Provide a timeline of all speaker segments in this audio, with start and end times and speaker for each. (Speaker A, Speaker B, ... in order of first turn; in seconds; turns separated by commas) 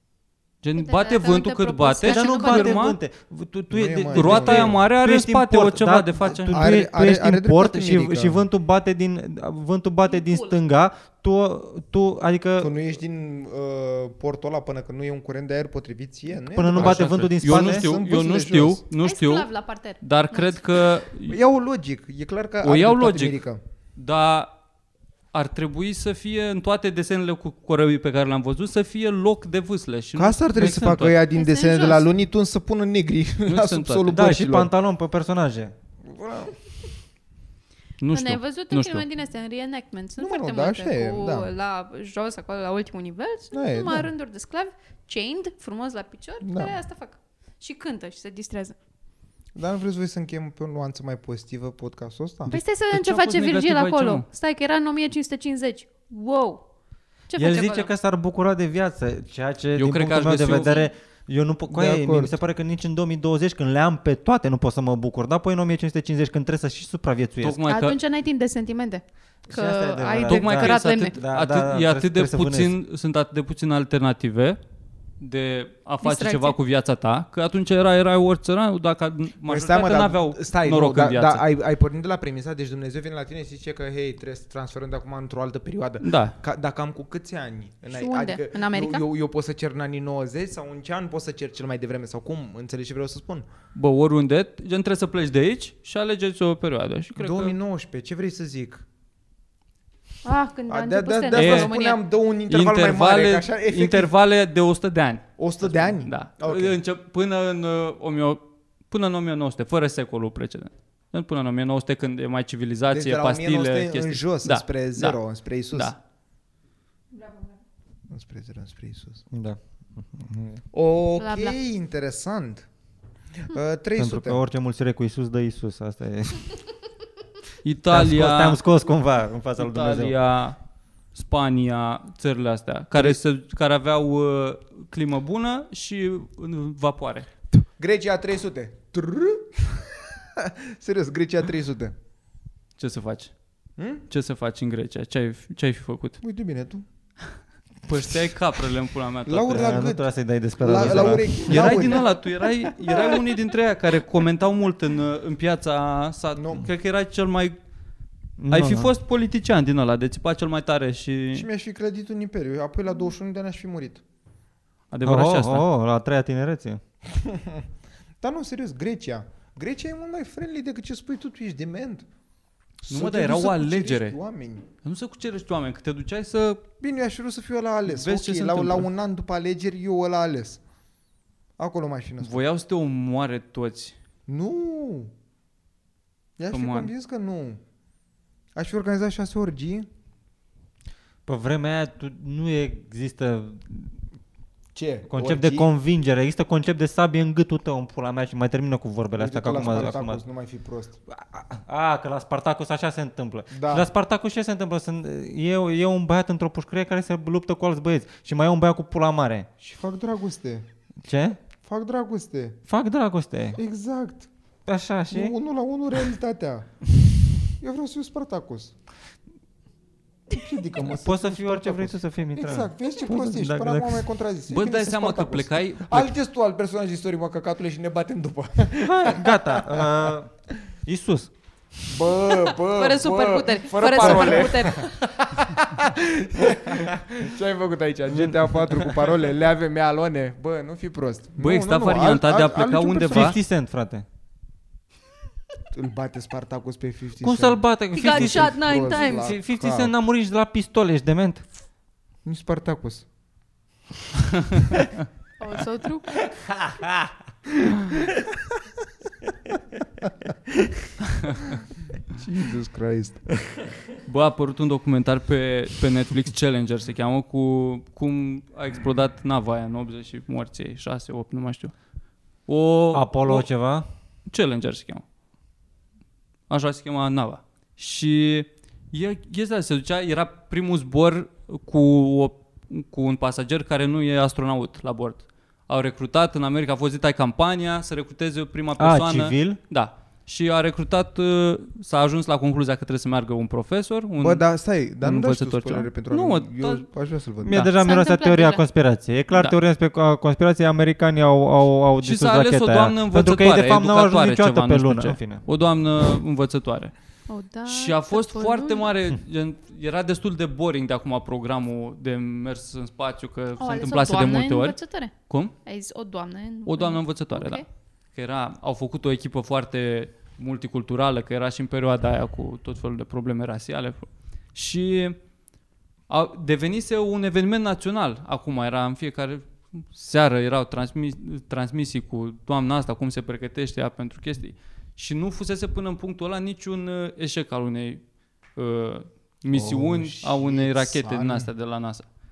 Speaker A: 0.6-3.0, Speaker B: 0.8-2.9, Speaker C: 2.0-12.7, Speaker D: 3.7-4.8, Speaker A: 4.1-6.6, Speaker D: 6.5-8.4, Speaker B: 10.1-10.6, Speaker D: 12.6-18.8, Speaker C: 16.5-17.9, Speaker A: 16.7-21.4, Speaker B: 19.0-20.6, Speaker D: 21.3-23.6, Speaker A: 22.6-23.4, Speaker A: 23.9-24.5, Speaker A: 25.3-31.2, Speaker D: 30.1-34.7, Speaker C: 30.6-30.9, Speaker B: 31.3-32.1, Speaker A: 33.5-34.2, Speaker C: 34.1-35.8, Speaker D: 36.1-36.5, Speaker A: 38.0-39.0, Speaker B: 38.1-48.8, Speaker D: 40.2-41.5, Speaker D: 43.5-44.1, Speaker D: 46.4-46.7, Speaker D: 49.5-52.6, Speaker B: 52.5-56.6, Speaker A: 52.5-54.2, Speaker B: 57.3-57.9, Speaker C: 57.4-67.6, Speaker A: 59.8-60.9, Speaker D: 61.7-62.4, Speaker A: 67.4-68.0, Speaker B: 67.7-71.1, Speaker C: 69.5-72.7, Speaker A: 70.3-74.6, Speaker A: 75.2-81.4, Speaker B: 76.0-76.6, Speaker D: 79.5-93.5, Speaker A: 86.0-86.3, Speaker B: 87.9-89.0, Speaker A: 93.7-97.5, Speaker D: 97.2-98.8, Speaker B: 100.2-102.0, Speaker D: 100.7-104.1, Speaker A: 101.3-101.7, Speaker A: 102.5-116.0, Speaker D: 105.4-106.8, Speaker D: 112.9-115.9, Speaker B: 117.2-117.5, Speaker D: 118.1-119.3, Speaker C: 119.3-120.6, Speaker D: 120.7-122.7, Speaker B: 121.2-121.5, Speaker D: 123.4-124.4, Speaker C: 124.0-126.6, Speaker A: 127.6-128.6, Speaker C: 127.9-130.1, Speaker A: 129.6-130.6, Speaker A: 131.1-137.3, Speaker D: 137.8-141.9, Speaker A: 142.8-143.3, Speaker D: 143.8-144.1, Speaker A: 144.1-146.2, Speaker D: 146.2-146.8, Speaker A: 147.9-149.9, Speaker D: 149.3-152.1, Speaker C: 149.5-152.0, Speaker A: 150.7-157.6, Speaker D: 156.3-156.7, Speaker C: 158.4-158.9, Speaker A: 158.5-161.5, Speaker D: 161.3-164.0, Speaker A: 164.9-165.7, Speaker C: 165.1-166.8, Speaker D: 167.1-167.7, Speaker D: 168.2-172.1, Speaker D: 172.8-174.7, Speaker A: 172.9-174.2, Speaker A: 174.8-176.6, Speaker D: 176.8-180.6, Speaker A: 177.9-178.9, Speaker D: 181.6-182.4, Speaker A: 182.2-183.9, Speaker D: 184.3-185.1, Speaker D: 186.4-187.6, Speaker A: 186.5-186.9, Speaker D: 188.6-189.9, Speaker C: 191.3-193.9, Speaker D: 194.7-195.7, Speaker C: 195.1-200.2, Speaker D: 199.1-201.0, Speaker C: 201.1-209.5, Speaker D: 203.5-203.9, Speaker D: 209.6-210.7, Speaker C: 211.0-211.4, Speaker D: 211.6-212.6, Speaker C: 212.7-213.6, Speaker D: 213.6-214.3, Speaker C: 214.7-215.3, Speaker D: 215.1-216.8, Speaker D: 217.6-218.7, Speaker D: 220.3-230.1, Speaker C: 220.8-224.0, Speaker A: 224.5-226.1, Speaker C: 228.8-231.3, Speaker D: 231.9-243.4, Speaker B: 232.7-234.9, Speaker A: 241.4-243.4, Speaker C: 243.1-244.1, Speaker D: 245.7-249.9, Speaker C: 247.2-251.4, Speaker B: 247.9-249.3, Speaker D: 252.2-253.1, Speaker B: 255.4-256.1, Speaker C: 256.6-257.1, Speaker A: 261.2-261.5, Speaker D: 262.1-263.3, Speaker A: 264.1-271.7, Speaker A: 272.5-273.5, Speaker C: 272.9-273.9, Speaker A: 274.3-275.0, Speaker A: 276.5-294.4, Speaker C: 288.8-289.6, Speaker D: 294.2-297.6, Speaker A: 295.0-296.9, Speaker C: 297.4-305.4, Speaker B: 297.8-298.6, Speaker A: 299.3-299.6, Speaker A: 302.0-306.9, Speaker B: 307.3-308.9, Speaker A: 307.7-315.5, Speaker B: 313.6-315.1, Speaker B: 315.6-317.6, Speaker A: 316.7-325.2, Speaker A: 326.1-338.0, Speaker A: 338.6-342.1, Speaker D: 339.5-341.5